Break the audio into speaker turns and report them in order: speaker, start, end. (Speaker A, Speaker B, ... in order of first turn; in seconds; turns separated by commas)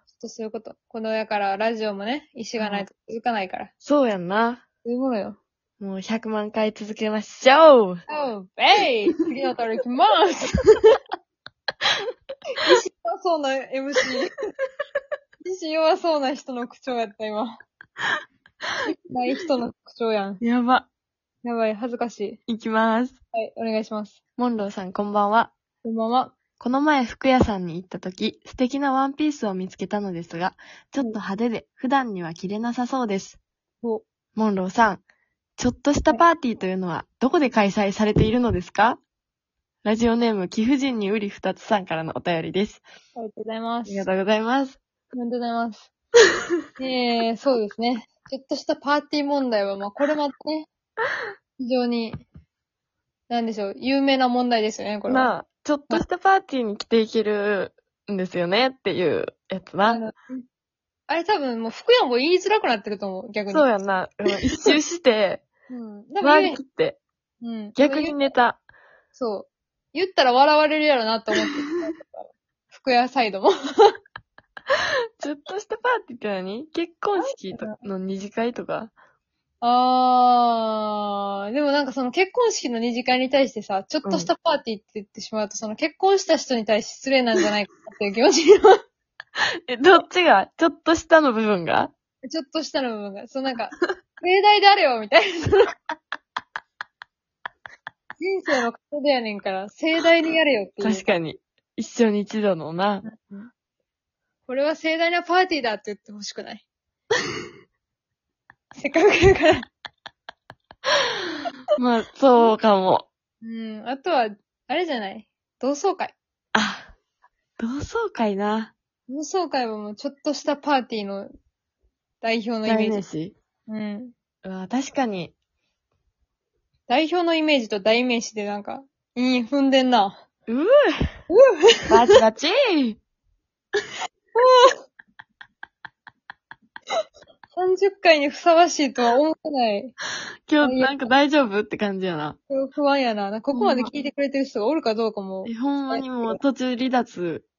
Speaker A: 0.1-3.7, Speaker B: 2.6-2.9, Speaker B: 3.8-4.6, Speaker A: 4.8-5.4, Speaker B: 5.8-8.0, Speaker A: 8.1-10.7, Speaker A: 12.6-14.3, Speaker A: 15.4-17.6, Speaker A: 19.1-20.4, Speaker B: 20.4-20.9, Speaker A: 21.4-22.4, Speaker B: 22.5-23.2, Speaker A: 23.3-24.2, Speaker B: 24.4-25.5, Speaker A: 25.8-26.3, Speaker B: 26.6-33.4, Speaker B: 34.4-35.0, Speaker B: 35.6-39.0, Speaker B: 39.8-42.8, Speaker A: 43.1-44.1, Speaker B: 43.9-44.8, Speaker A: 45.1-45.9, Speaker A: 46.8-50.7, Speaker A: 51.6-52.2, Speaker A: 53.3-55.3, Speaker B: 55.1-60.0, Speaker A: 59.9-60.4, Speaker A: 61.1-63.7, Speaker B: 63.5-65.4, Speaker A: 65.7-66.6, Speaker B: 66.2-67.0, Speaker A: 67.4-68.2, Speaker B: 67.8-68.6, Speaker A: 69.1-74.0, Speaker B: 75.2-78.9, Speaker A: 77.2-77.8, Speaker A: 79.6-88.8, Speaker B: 84.0-84.3, Speaker B: 89.7-91.9, Speaker A: 92.3-95.7, Speaker A: 98.2-101.1, Speaker B: 100.8-103.0, Speaker A: 103.0-103.5, Speaker A: 104.5-106.6, Speaker A: 108.7-109.7, Speaker B: 111.8-113.0, Speaker A: 113.4-116.2, Speaker B: 116.5-116.9, Speaker B: 117.6-118.7, Speaker A: 119.1-121.3, Speaker A: 122.2-123.0, Speaker B: 122.6-123.3, Speaker A: 123.7-124.1, Speaker B: 124.4-125.3, Speaker A: 126.9-130.2, Speaker A: 131.3-131.9, Speaker B: 131.9-133.0, Speaker A: 134.3-134.7, Speaker A: 137.5-139.9, Speaker B: 140.5-142.4, Speaker A: 140.6-141.0, Speaker A: 142.5-146.4, Speaker B: 143.5-143.9, Speaker B: 145.4-147.4